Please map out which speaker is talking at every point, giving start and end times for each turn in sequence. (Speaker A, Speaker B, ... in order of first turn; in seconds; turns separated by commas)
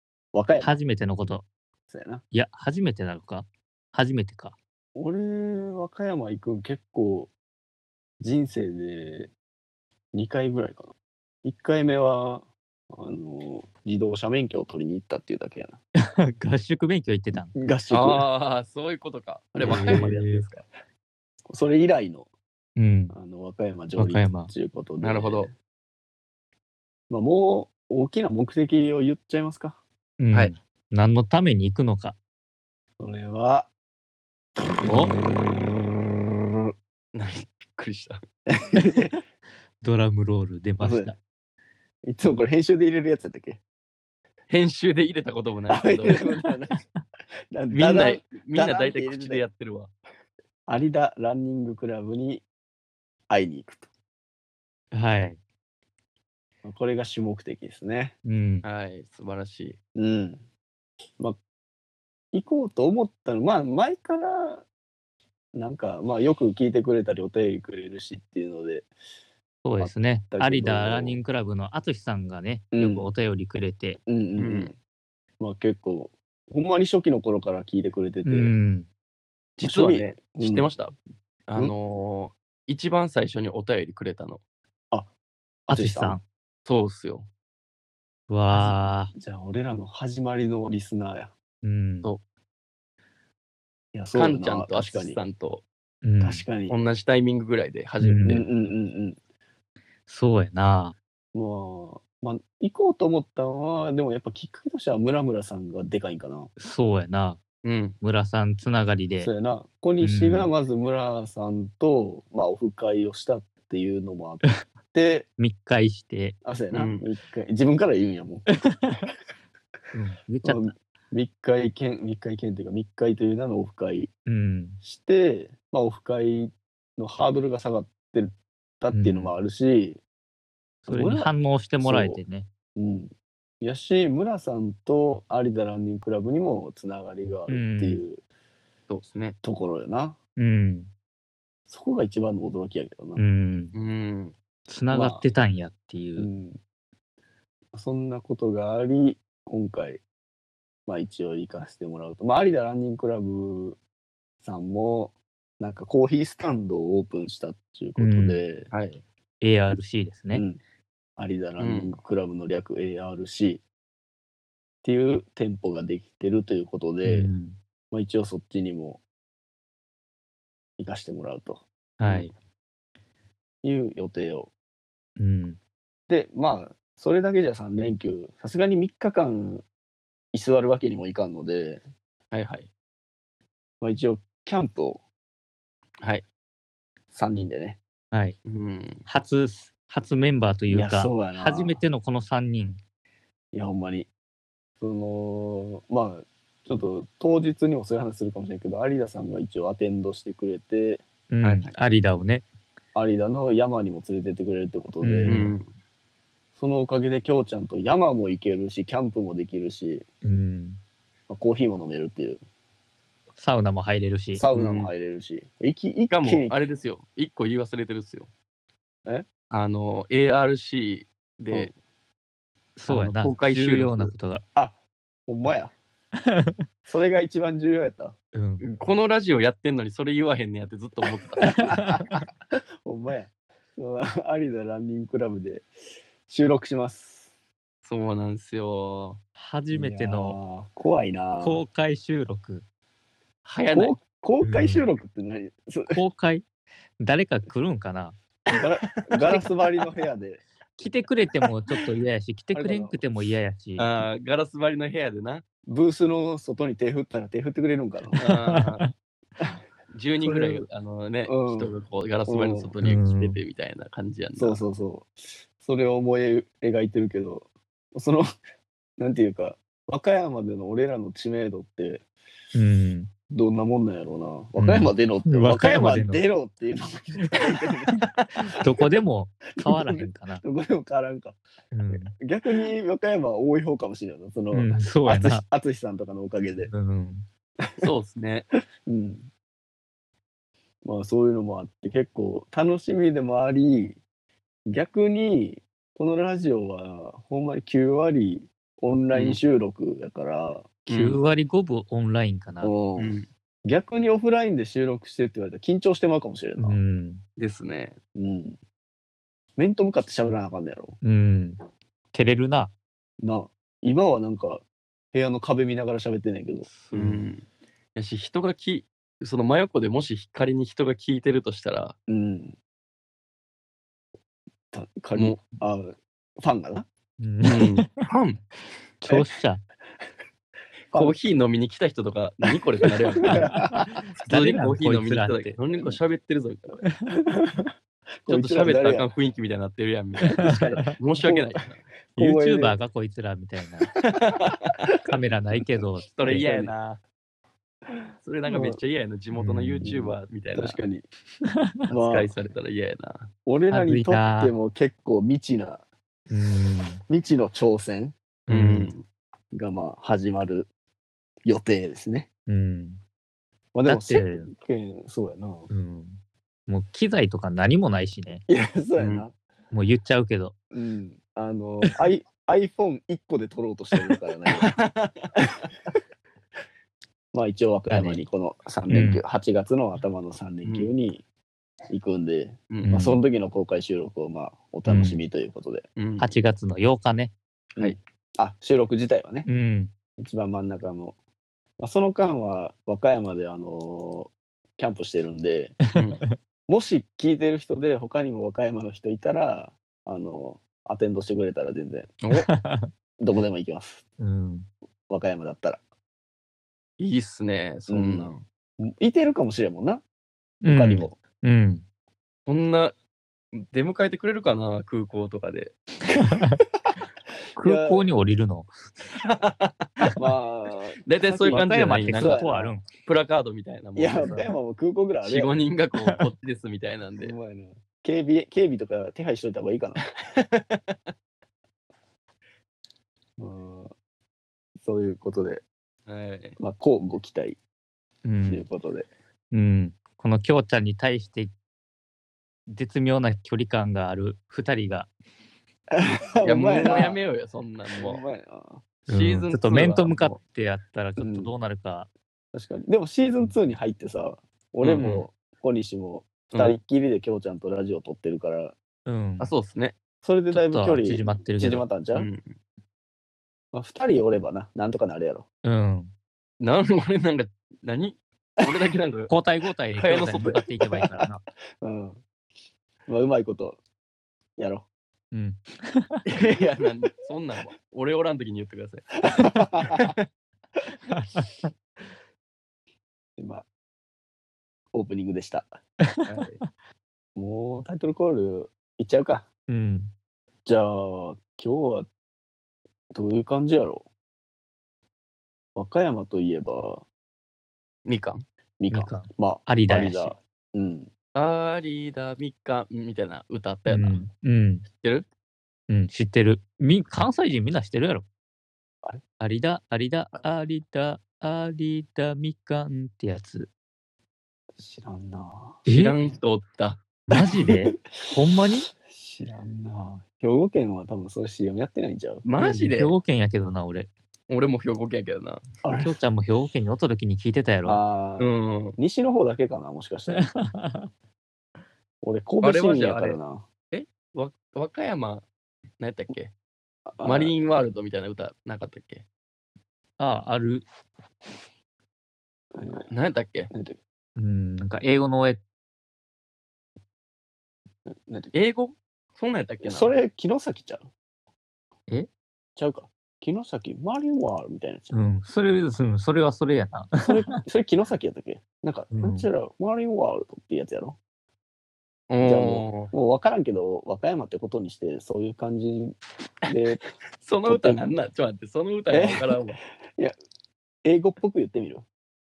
Speaker A: 0.3-0.8, Speaker B: 0.6-1.4, Speaker A: 1.9-2.2, Speaker B: 2.3-4.6, Speaker A: 5.0-7.3, Speaker A: 8.2-9.3, Speaker A: 10.1-15.8, Speaker B: 16.0-17.5, Speaker A: 17.6-18.2, Speaker C: 17.9-20.6, Speaker A: 19.6-20.2, Speaker B: 19.6-20.4, Speaker A: 21.5-22.3, Speaker B: 22.8-23.1, Speaker A: 23.1-25.5, Speaker B: 24.0-24.5, Speaker C: 25.0-25.5, Speaker A: 27.1-29.8, Speaker B: 30.2-32.2, Speaker A: 33.0-33.7, Speaker B: 34.8-35.1, Speaker C: 37.1-38.2, Speaker A: 38.5-39.2, Speaker B: 39.8-41.2, Speaker A: 40.8-41.1, Speaker A: 42.1-43.6, Speaker C: 44.5-46.2, Speaker A: 45.7-46.8, Speaker B: 46.5-46.8, Speaker A: 47.5-49.5, Speaker C: 47.7-49.9, Speaker A: 50.7-52.5, Speaker A: 53.3-53.9, Speaker B: 54.9-55.4, Speaker A: 56.6-58.1, Speaker B: 58.2-58.6, Speaker C: 58.6-59.8, Speaker A: 60.0-60.4, Speaker A: 62.3-64.7, Speaker A: 65.5-68.9, Speaker B: 69.6-74.0, Speaker A: 69.8-71.2, Speaker A: 72.7-73.1, Speaker A: 74.1-74.8, Speaker C: 74.4-74.7, Speaker A: 75.4-78.5, Speaker B: 78.2-78.9, Speaker A: 79.6-80.7, Speaker C: 79.6-80.9, Speaker C: 81.5-84.4, Speaker A: 85.7-86.2, Speaker B: 85.7-86.2, Speaker C: 86.7-87.3, Speaker B: 88.3-89.1, Speaker A: 88.6-91.3, Speaker B: 91.6-92.1, Speaker A: 93.9-95.2, Speaker C: 94.1-95.7, Speaker B: 96.0-96.4, Speaker A: 96.2-96.8, Speaker C: 96.7-98.5, Speaker B: 98.0-98.5, Speaker A: 98.3-99.2, Speaker B: 100.1-101.0, Speaker A: 101.3-106.5, Speaker B: 106.6-107.4, Speaker C: 107.6-108.0, Speaker B: 108.0-109.3, Speaker A: 109.2-115.3, Speaker B: 110.0-110.5, Speaker B: 115.4-116.4, Speaker A: 116.4-118.5, Speaker C: 116.7-117.0, Speaker B: 118.6-119.1, Speaker B: 119.9-120.7, Speaker A: 120.4-124.1, Speaker B: 124.3-124.8, Speaker A: 124.8-130.0, Speaker B: 128.9-129.3, Speaker A: 130.8-132.2, Speaker B: 130.9-132.5, Speaker A: 132.8-138.2, Speaker B: 137.5-138.0, Speaker C: 138.9-139.4, Speaker A: 139.4-140.2, Speaker B: 140.4-140.9, Speaker A: 141.7-143.2, Speaker B: 143.2-143.8, Speaker C: 143.7-144.4, Speaker B: 144.7-146.3, Speaker A: 144.9-145.2, Speaker A: 146.2-146.6, Speaker A: 147.7-150.0, Speaker A: 150.9-153.8, Speaker A: 154.4-158.7, Speaker B: 158.0-158.4, Speaker C: 158.7-159.0, Speaker B: 159.4-160.4, Speaker A: 160.3-160.6, Speaker A: 161.2-163.6, Speaker C: 161.6-162.0, Speaker A: 164.8-167.3, Speaker B: 167.0-167.6, Speaker A: 167.9-169.0, Speaker A: 170.8-171.7, Speaker B: 172.0-172.3, Speaker A: 173.6-174.5, Speaker B: 175.2-175.6, Speaker A: 176.1-179.7, Speaker A: 180.3-181.8, Speaker C: 182.3-182.7, Speaker A: 183.8-185.0, Speaker A: 187.1-187.8, Speaker C: 188.4-189.1, Speaker B: 189.1-192.8, Speaker A: 190.7-191.8, Speaker A: 193.5-194.1, Speaker A: 194.8-201.0, Speaker B: 201.3-202.4, Speaker C: 201.4-201.7, Speaker A: 202.9-205.5, Speaker B: 205.0-205.5, Speaker C: 205.3-205.7, Speaker A: 206.6-210.1, Speaker B: 210.2-210.8, Speaker A: 211.3-212.4, Speaker B: 213.4-214.4, Speaker A: 214.3-216.6, Speaker C: 214.5-214.9, Speaker C: 216.1-218.3, Speaker C: 219.5-221.7, Speaker B: 222.8-224.4, Speaker C: 222.9-224.1, Speaker A: 224.6-225.7, Speaker B: 226.3-226.6, Speaker A: 226.9-228.2, Speaker B: 228.3-228.7, Speaker C: 228.6-231.6, Speaker B: 231.4-232.3, Speaker A: 231.4-235.7, Speaker A: 236.3-237.3, Speaker C: 237.9-239.2, Speaker B: 239.4-240.4, Speaker A: 239.7-241.6, Speaker B: 241.4-242.7, Speaker C: 243.4-244.0, Speaker A: 243.7-246.0, Speaker B: 244.4-244.9, Speaker B: 245.9-246.4, Speaker B: 247.0-248.2, Speaker A: 248.5-250.4, Speaker C: 248.9-249.3, Speaker B: 250.8-253.9, Speaker A: 252.5-253.0, Speaker C: 253.8-255.4, Speaker A: 255.7-258.4, Speaker C: 258.2-258.9, Speaker B: 258.4-258.9, Speaker C: 259.9-264.6, Speaker A: 260.2-260.6, Speaker A: 261.3-261.7, Speaker A: 262.3-262.7, Speaker B: 262.8-263.4, Speaker A: 264.4-268.3, Speaker A: 269.0-272.0, Speaker B: 272.6-273.1, Speaker A: 273.3-278.1, Speaker B: 274.6-276.2, Speaker B: 277.2-280.4, Speaker A: 279.6-281.4, Speaker B: 281.7-282.1, Speaker A: 281.9-286.7, Speaker B: 284.5-285.4, Speaker B: 286.6-287.3, Speaker A: 287.6-287.9, Speaker C: 287.8-288.5, Speaker A: 288.9-289.3, Speaker A: 290.8-294.0, Speaker A: 294.7-300.9, Speaker C: 299.1-299.4, Speaker C: 300.9-301.2, Speaker B: 300.9-302.8, Speaker A: 302.6-306.8, Speaker C: 303.0-303.3, Speaker B: 306.6-307.2, Speaker C: 307.4-308.0, Speaker A: 308.1-308.6, Speaker A: 309.6-311.0, Speaker B: 311.0-311.6, Speaker B: 312.1-312.7, Speaker A: 313.2-316.7, Speaker B: 316.8-317.3, Speaker C: 316.9-317.4, Speaker C: 318.0-322.0, Speaker A: 322.1-322.6, Speaker A: 324.7-326.9, Speaker C: 325.1-325.4, Speaker B: 327.2-328.0, Speaker C: 327.4-328.4, Speaker B: 329.0-329.6, Speaker A: 330.9-331.2, Speaker C: 330.9-333.5, Speaker A: 332.9-334.0, Speaker B: 333.3-335.6, Speaker C: 334.1-336.8, Speaker B: 336.9-337.1, Speaker A: 337.2-337.7, Speaker A: 338.3-339.1, Speaker C: 338.3-341.8, Speaker A: 340.3-341.6, Speaker B: 340.4-340.9, Speaker A: 342.1-342.8, Speaker B: 342.2-343.9, Speaker C: 344.0-345.0, Speaker B: 345.0-346.5, Speaker C: 346.1-347.0, Speaker A: 346.2-346.7, Speaker C: 348.2-350.8, Speaker A: 348.5-348.8, Speaker B: 349.3-350.0, Speaker A: 349.8-351.0, Speaker A: 351.9-352.3, Speaker C: 351.9-353.3, Speaker A: 353.5-355.8, Speaker B: 353.7-354.5, Speaker B: 356.3-357.0, Speaker A: 357.1-358.1, Speaker B: 358.5-358.9, Speaker C: 358.5-359.1, Speaker A: 359.5-360.7, Speaker A: 361.4-362.3, Speaker B: 362.5-363.0, Speaker A: 363.7-365.7, Speaker B: 363.9-364.5, Speaker B: 365.7-368.4, Speaker A: 368.5-369.4, Speaker C: 369.0-369.2, Speaker B: 369.7-370.6, Speaker A: 370.7-374.7, Speaker C: 374.5-375.3, Speaker A: 377.3-381.2, Speaker B: 377.9-378.2, Speaker B: 378.9-379.2, Speaker C: 380.6-380.9, Speaker A: 381.9-385.9, Speaker C: 382.7-383.0, Speaker B: 382.8-383.2, Speaker B: 384.9-385.2, Speaker C: 386.0-386.4, Speaker B: 386.2-387.3, Speaker A: 387.8-389.5, Speaker B: 389.5-389.9, Speaker A: 390.2-391.2, Speaker A: 391.8-395.8, Speaker C: 395.9-396.2, Speaker A: 396.7-402.2, Speaker C: 402.2-402.5, Speaker B: 402.3-402.9, Speaker A: 403.2-404.0, Speaker B: 404.2-404.7, Speaker A: 405.1-405.8, Speaker C: 407.0-408.4, Speaker A: 407.9-410.0, Speaker B: 410.6-411.8, Speaker A: 410.7-411.2, Speaker C: 412.5-412.9, Speaker C: 413.5-415.8, Speaker B: 416.2-416.6, Speaker B: 417.6-418.7, Speaker A: 417.6-418.1, Speaker C: 419.2-419.9, Speaker A: 420.2-422.7, Speaker C: 421.1-422.4, Speaker B: 421.5-422.9, Speaker C: 423.0-424.5, Speaker A: 424.0-425.5, Speaker C: 425.2-427.3, Speaker A: 427.2-430.0, Speaker C: 430.2-431.0, Speaker A: 433.4-433.9, Speaker A: 434.8-435.6, Speaker C: 436.1-436.6, Speaker A: 436.6-437.6, Speaker B: 438.2-438.7, Speaker A: 438.5-439.1, Speaker B: 439.5-441.5, Speaker B: 442.7-445.1, Speaker A: 445.9-447.2, Speaker C: 446.4-448.2, Speaker A: 447.9-448.9, Speaker C: 449.1-450.4, Speaker B: 449.1-452.1, Speaker A: 451.2-451.5, Speaker A: 452.5-458.8, Speaker C: 454.8-455.3, Speaker C: 456.5-456.8, Speaker B: 459.1-459.5, Speaker C: 459.4-460.0, Speaker A: 460.2-462.3, Speaker B: 460.5-461.9, Speaker C: 462.1-462.6, Speaker A: 463.7-465.5, Speaker B: 465.6-466.1, Speaker C: 466.6-469.3, Speaker B: 469.3-471.4, Speaker C: 469.9-470.7, Speaker A: 471.8-472.2, Speaker A: 473.1-473.8, Speaker A: 474.6-474.9, Speaker B: 475.3-476.2, Speaker C: 476.3-479.2, Speaker A: 476.4-476.9, Speaker A: 479.2-480.1, Speaker B: 481.1-481.5, Speaker A: 483.4-483.7, Speaker A: 484.9-485.7, Speaker C: 486.2-486.6, Speaker A: 487.4-489.5, Speaker B: 489.7-490.1, Speaker A: 490.7-492.1, Speaker A: 493.1-494.1, Speaker A: 495.8-497.1, Speaker C: 498.1-498.4, Speaker A: 498.8-501.1, Speaker B: 498.9-500.4, Speaker C: 501.4-504.2, Speaker B: 503.9-504.9, Speaker C: 505.0-505.3, Speaker B: 505.9-508.3, Speaker B: 509.4-513.7, Speaker A: 514.8-515.8, Speaker B: 515.9-516.2, Speaker C: 515.9-517.0, Speaker B: 517.3-518.9, Speaker A: 517.3-522.5, Speaker C: 522.4-523.1, Speaker B: 522.6-524.1, Speaker C: 524.5-525.6, Speaker A: 525.8-526.2, Speaker B: 526.0-528.0, Speaker A: 527.9-530.5, Speaker C: 528.4-529.0, Speaker B: 530.3-531.1, Speaker A: 532.2-533.7, Speaker C: 532.6-533.4, Speaker C: 533.9-535.5, Speaker C: 536.0-536.5, Speaker A: 537.1-537.5, Speaker C: 537.2-539.2, Speaker B: 540.2-540.9, Speaker A: 542.8-543.1, Speaker C: 543.1-543.7, Speaker A: 543.7-544.0, Speaker B: 544.4-545.6, Speaker A: 548.1-548.5, Speaker C: 548.5-550.1, Speaker A: 549.8-551.1, Speaker A: 552.8-555.1, Speaker B: 555.1-557.5, Speaker A: 557.3-561.2, Speaker B: 559.1-559.5, Speaker C: 562.3-563.1, Speaker A: 562.4-567.0, Speaker C: 567.4-569.8, Speaker A: 567.7-568.0, Speaker A: 569.1-569.6, Speaker A: 571.0-572.1